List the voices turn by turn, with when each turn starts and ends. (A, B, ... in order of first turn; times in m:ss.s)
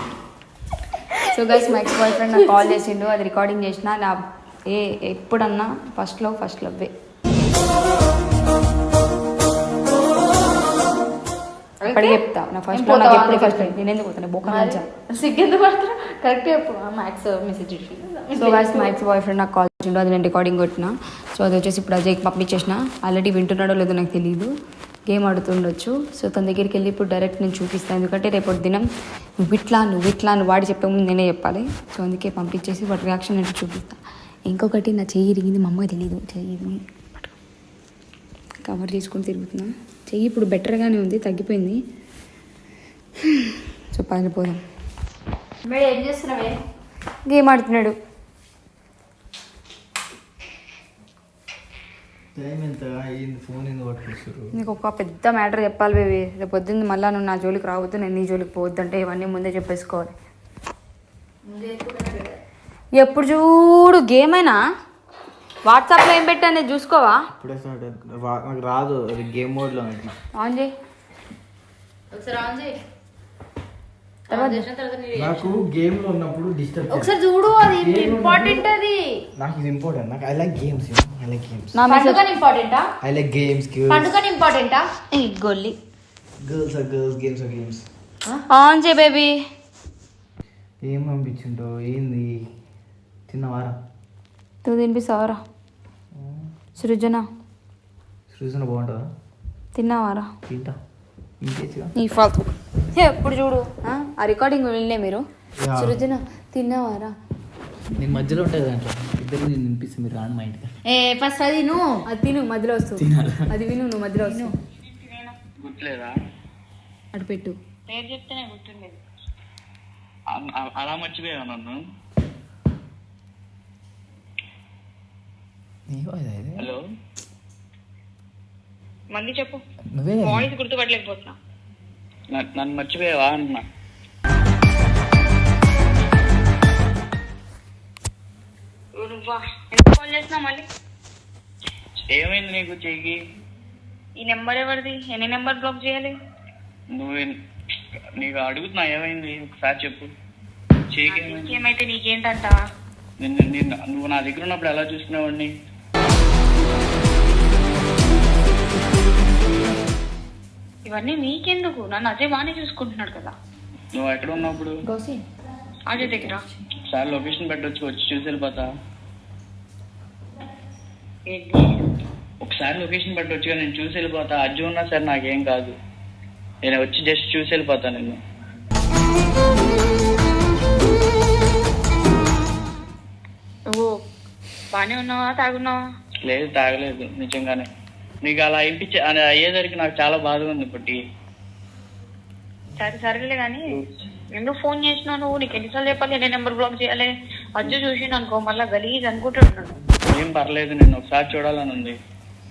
0:01.1-0:02.7 A
0:01.2-0:06.9 B
0:11.8-0:13.8 A
0:11.9-0:14.8 B
0:14.4-0:18.9 A
0:18.4-0:24.5 B
0:25.1-0:28.8 B
0:29.4-0:37.3 B
0:38.6-0:41.8 B
0:43.5-0:44.6 B
0:45.6-0:46.6 A
0:47.2-0:47.9 B
0:52.3-0:54.5 C
0:54.6-1:00.1 B
1:01.4-1:02.4 A
1:03.0-1:04.6 B
1:05.7-1:07.1 B
1:07.4-1:10.1 C
1:10.4-1:10.7 B
1:12.1-1:12.8 A
1:14.3-1:15.6 A
1:14.3-1:14.6 B
1:15.1-1:17.1 C
1:16.9-1:19.0 A
1:17.8-1:18.6 C
1:19.4-1:21.8 C
1:21.8-1:22.2 B
1:21.9-1:22.9 A
1:23.0-1:24.1 C
1:23.9-1:24.9 A
1:25.1-1:25.8 B
1:26.4-1:27.8 C
1:28.5-1:29.3 B
1:30.8-1:32.4 C
1:33.3-1:33.8 C
1:34.6-1:35.4 B
1:36.2-1:36.4 C
1:36.8-1:37.2 B
1:38.3-1:39.1 C
1:39.8-1:40.3 B
1:40.5-1:40.8 C
1:41.4-1:41.9 C
1:42.0-1:45.2 B
1:45.6-1:46.0 C
1:45.8-1:47.1 B
1:48.0-1:50.7 C
1:50.9-1:52.0 A
1:52.1-1:54.5 B
1:53.0-1:53.5 C
1:54.2-1:54.5 A
1:55.0-1:55.4 D
1:55.6-1:56.1 E
1:57.1-1:57.6 B
1:57.9-1:59.0 D
2:00.4-2:01.8 E
2:05.9-2:06.7 C
2:09.1-2:09.6 D
2:09.9-2:10.5 C
2:10.2-2:11.3 D
2:12.3-2:13.6 E
2:19.0-2:20.6 D
2:22.1-2:23.2 E
2:24.2-2:26.1 D
2:26.9-2:27.3 E
2:28.2-2:30.1 E
2:30.9-2:31.6 E
2:31.1-2:32.6 D
2:33.2-2:35.5 E
2:40.9-2:43.3 D
2:43.9-2:44.7 E
2:44.8-2:45.2 B
2:45.9-2:46.4 D
2:46.0-2:48.7 E
2:51.3-2:51.7 D
2:52.4-2:55.8 E
2:56.6-2:58.2 E
3:03.7-3:04.0 D
3:04.7-3:05.8 D
3:06.2-3:07.6 E
3:08.2-3:11.0 E
3:12.8-3:13.7 D
3:14.4-3:19.8 D
3:20.1-3:21.9 E